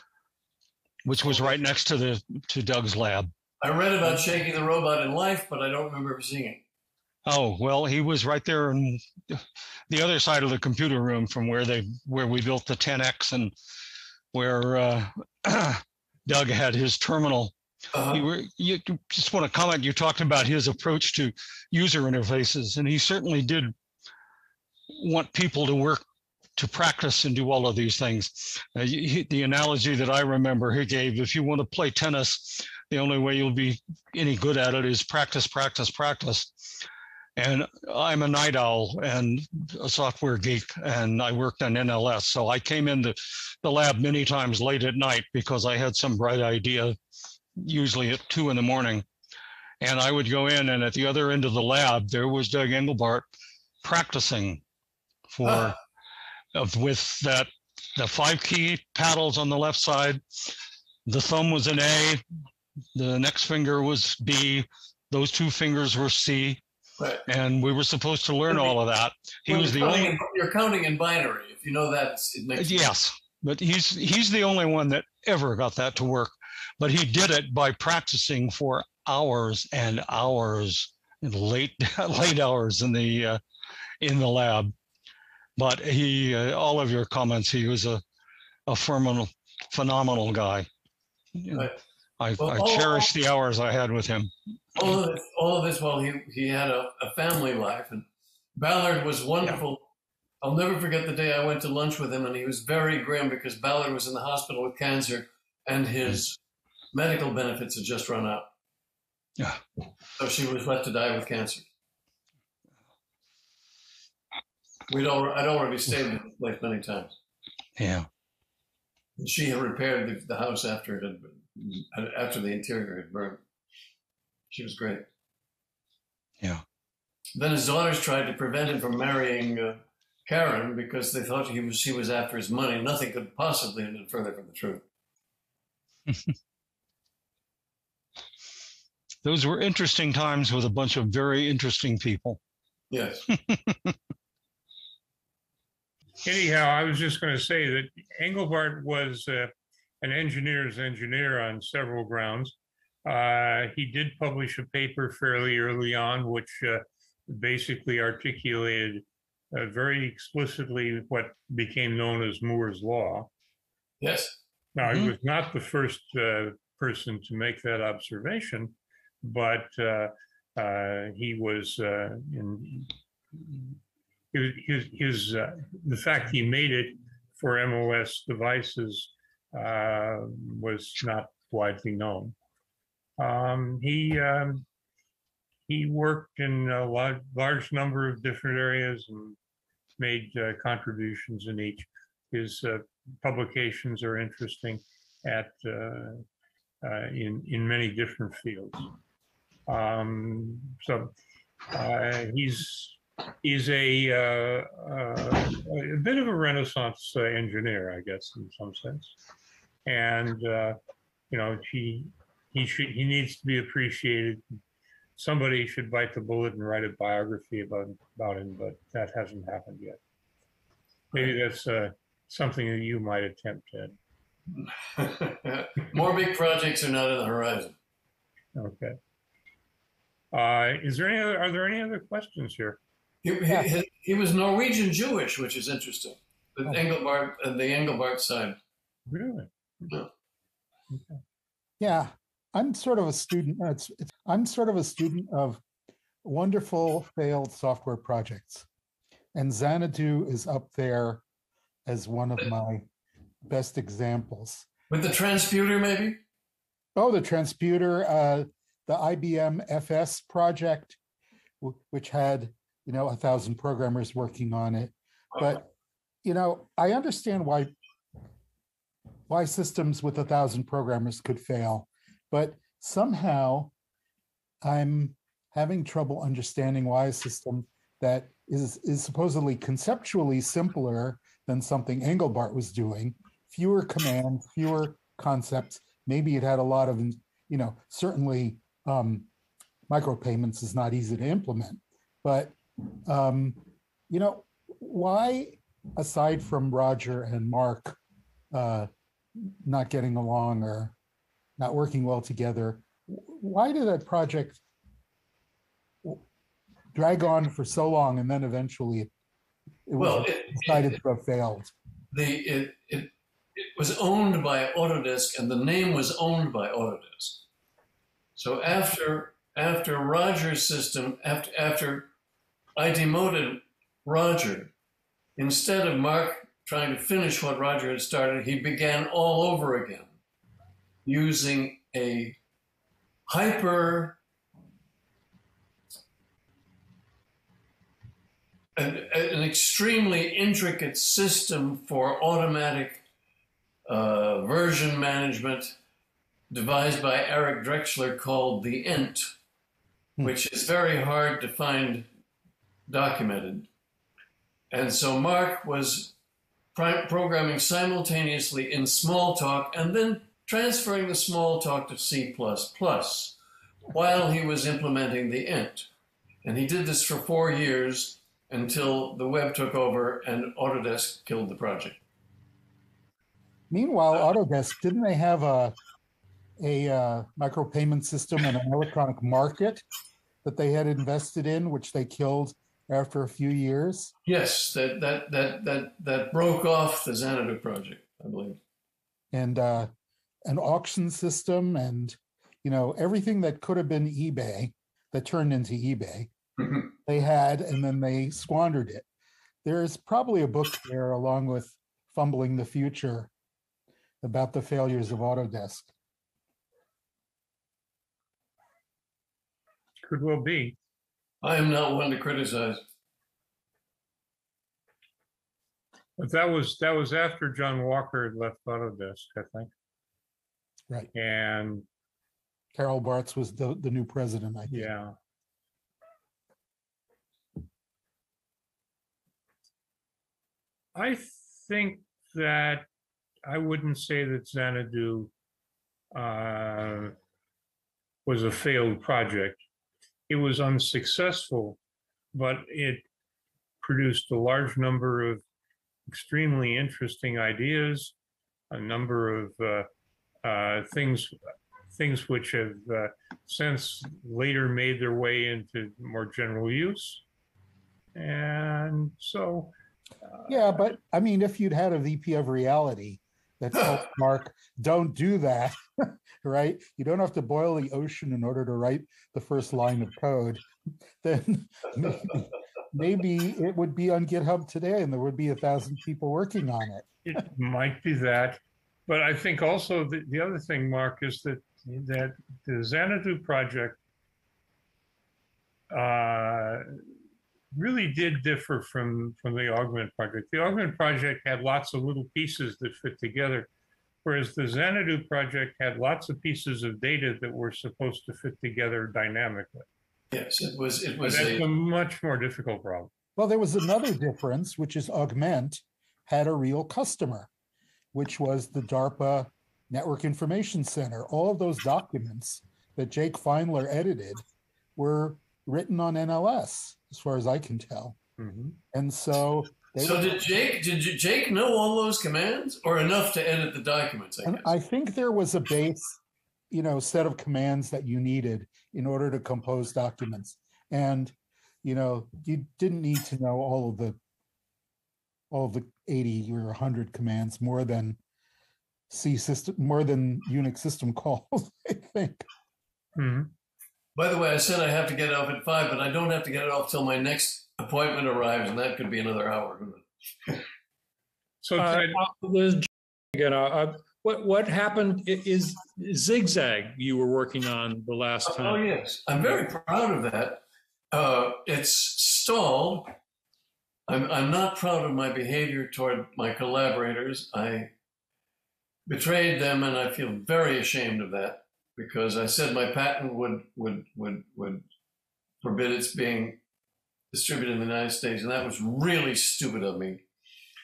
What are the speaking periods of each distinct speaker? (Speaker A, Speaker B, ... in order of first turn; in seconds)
Speaker A: 1.1-3.3, 7.3-13.5, 14.3-17.5, 18.1-23.7, 24.9-26.0, 26.6-36.8, 37.4-47.0, 47.6-49.0, 49.8-53.3, 53.8-54.6, 55.3-55.8, 56.5-60.2, 61.1-62.2, 63.0-66.6, 67.3-70.2, 72.6-83.4, 84.0-84.7, 85.6-88.0, 88.7-90.7, 91.4-94.9, 117.8-118.1, 139.2-142.4, 143.3-143.8
Speaker B: 1.2-1.5, 3.6-6.6, 17.9-18.2, 68.5-68.8, 69.5-72.9, 91.5-91.8, 92.4-93.1, 94.8-98.0, 98.6-99.8, 100.4-106.4, 106.9-108.5, 110.2-111.7, 114.9-117.1, 119.2-123.4, 124.5-125.1, 127.3-134.8, 142.9-143.2, 164.0-164.4, 224.6-227.8, 233.2-238.6, 254.9-256.2, 310.0-311.0, 312.1-317.4, 318.4-322.1, 322.8-324.7, 325.4-330.1, 331.1-332.4, 333.3-334.2, 338.8-343.0, 343.9-345.8, 346.5-349.3, 350.2-352.1, 352.9-353.7, 354.7-356.1, 356.8-363.4, 363.9-365.9, 366.4-372.0, 384.3-388.6, 396.6-396.9, 411.4-412.8, 500.3-501.6, 520.0-524.7, 544.2-550.6, 558.5-563.1, 564.1-567.9, 569.1-574.9, 575.6-576.6, 577.3-580.2
Speaker C: 146.2-163.3, 164.8-173.8, 174.3-182.3, 183.2-184.7, 185.7-189.4, 190.0-196.2, 196.8-198.9, 199.7-201.1, 201.7-209.2, 209.9-210.8, 211.3-214.4, 215.2-220.0, 221.1-224.0, 228.6-229.0, 230.3-232.8, 239.1-239.9, 240.9-241.2, 410.0-410.8, 416.2-419.7, 421.1-421.9, 424.7-425.1, 430.9-432.9, 433.4-435.3, 436.1-437.1, 438.2-439.6, 440.3-441.8, 442.3-443.0, 443.8-445.4, 446.1-448.1, 448.7-449.9, 450.4-451.3, 451.9-457.2, 458.1-459.7, 460.3-460.8, 477.2-484.0, 485.9-486.9, 487.7-493.7, 494.2-499.9, 501.2-503.1, 518.4-518.8, 543.2-543.5, 551.6-552.2
Speaker D: 241.8-245.6, 246.2-248.7, 249.3-251.2, 251.9-252.9, 253.4-254.7, 257.0-261.0, 261.6-265.7, 266.2-267.7, 269.3-273.7, 274.6-289.3, 289.9-298.0, 298.5-300.9, 301.6-304.6, 306.9-309.1, 309.9-311.7, 373.7-375.8, 376.6-379.8, 380.4-384.1, 389.3-389.9, 390.5-396.3, 397.1-399.1, 399.6-403.3, 404.2-405.9, 422.7-424.9, 460.5-470.6, 471.2-477.1, 503.4-507.5, 508.1-514.4, 515.0-518.2, 518.9-520.5, 524.5-526.2, 526.7-534.2, 535.5-538.2, 539.1-542.5
Speaker E: 551.8-558.8